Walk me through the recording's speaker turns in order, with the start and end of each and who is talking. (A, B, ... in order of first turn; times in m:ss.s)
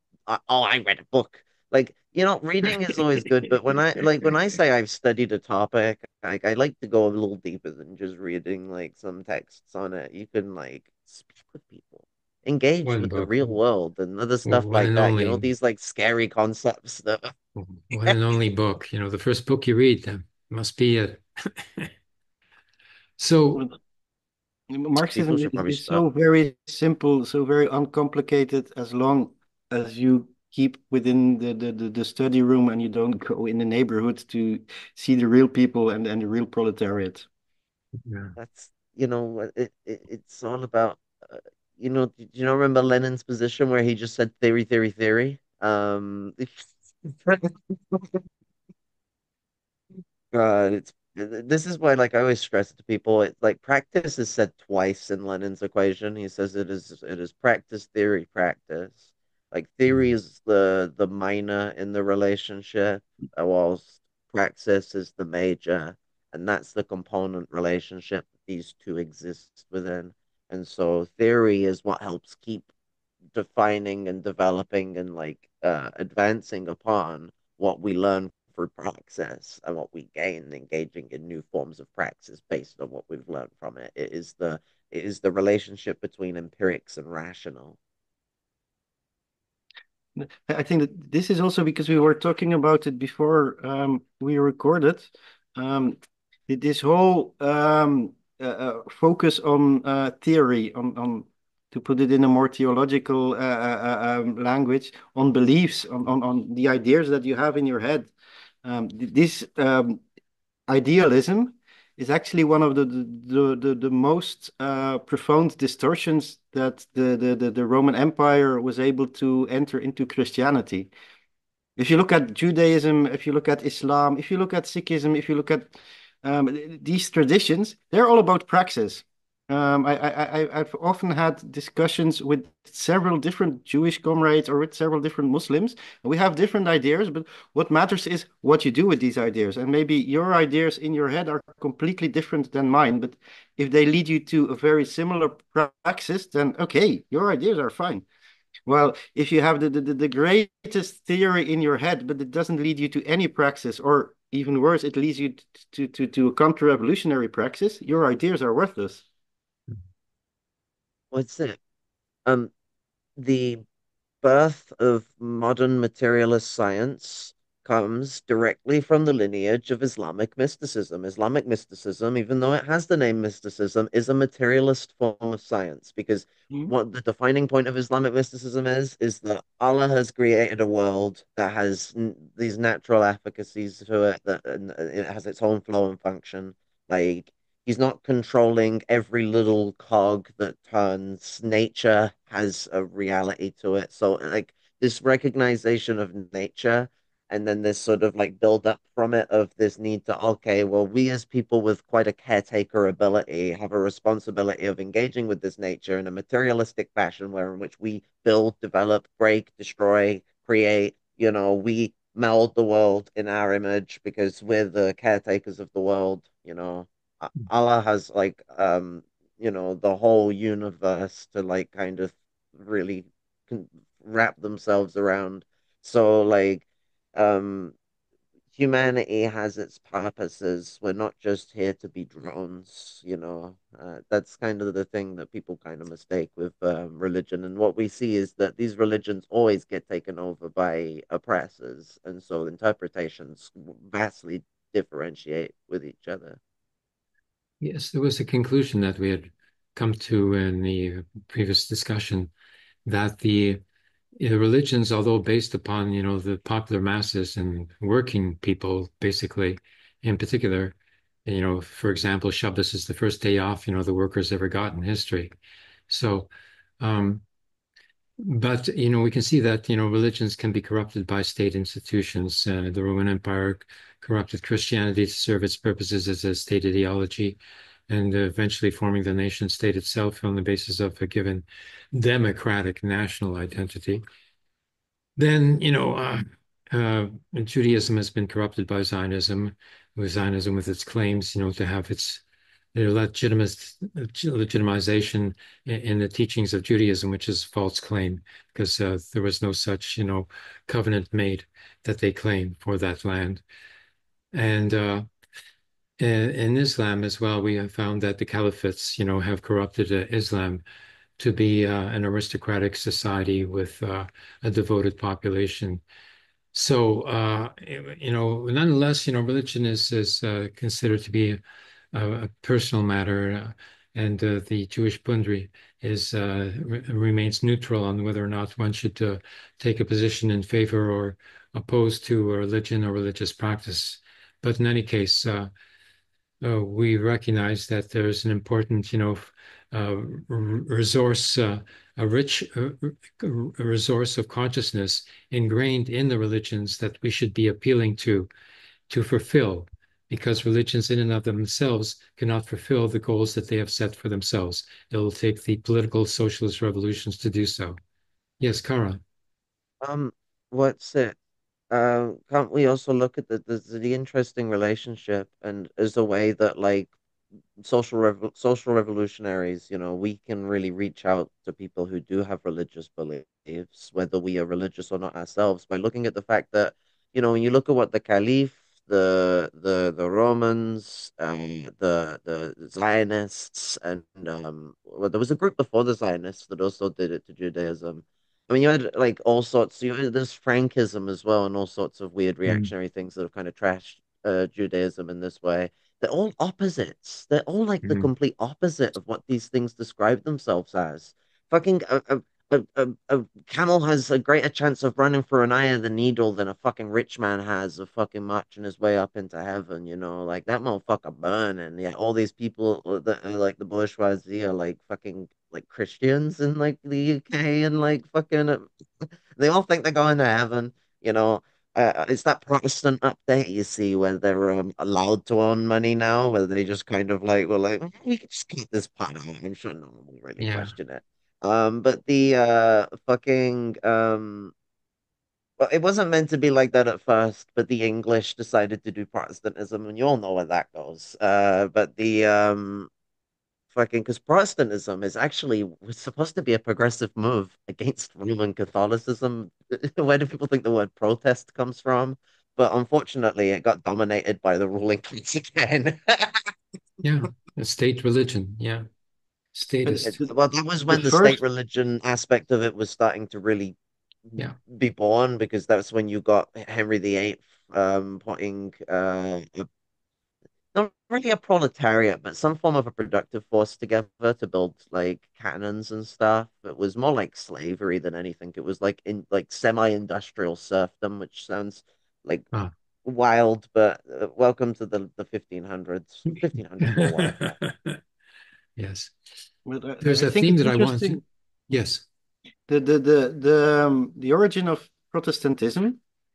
0:00.3-0:17.3 A
0:12.8-0:13.5 B
0:14.4-0:15.5 B
0:17.6-0:21.9 B
0:23.2-0:23.6 B
0:24.7-0:37.2 C
0:25.1-0:26.0 A
0:38.0-0:38.4 B
0:38.4-0:48.2 A
0:50.3-1:12.7 A
1:13.3-1:27.8 A
1:30.2-1:48.1 C
1:48.6-1:50.0 C
1:50.7-2:00.9 C
2:01.8-2:05.7 C
2:06.2-2:28.0 C
2:28.6-2:39.0 C
2:41.1-2:41.6 A
2:42.2-2:42.5 A
2:43.2-2:43.6 A
2:44.2-3:47.8 A
3:48.5-4:06.4 A
4:07.6-4:12.3 B
4:12.8-4:13.6 B
4:14.2-4:25.3 B
4:25.9-4:27.2 B
4:28.2-4:44.0 B
4:45.2-4:52.2 B
4:52.8-5:03.4 B
5:04.3-5:05.0 B
5:06.0-5:10.6 B
5:11.2-5:15.8 B
5:16.5-5:21.4 B
5:21.9-5:35.5 B
5:36.4-5:48.3 B
5:48.9-5:57.8 B
5:58.4-5:59.0 B
5:59.8-6:01.2 A
6:01.7-6:06.9 A
6:07.6-7:14.5 A
6:32.5-6:32.7 B
6:37.8-6:38.1 B
7:10.4-7:10.8 B
7:15.6-7:22.9 A
7:23.7-7:36.5 A
7:37.0-7:38.8 B
7:39.5-7:40.2 B
7:39.8-7:40.3 C
7:40.0-7:43.8 A
7:40.9-7:41.4 C
7:44.3-7:49.7 A
7:50.7-8:02.5 A
8:03.0-8:07.6 A
8:06.8-8:08.0 B
8:08.8-8:09.5 B
8:09.7-8:11.2 C
8:10.0-8:12.0 B
8:12.7-8:16.0 C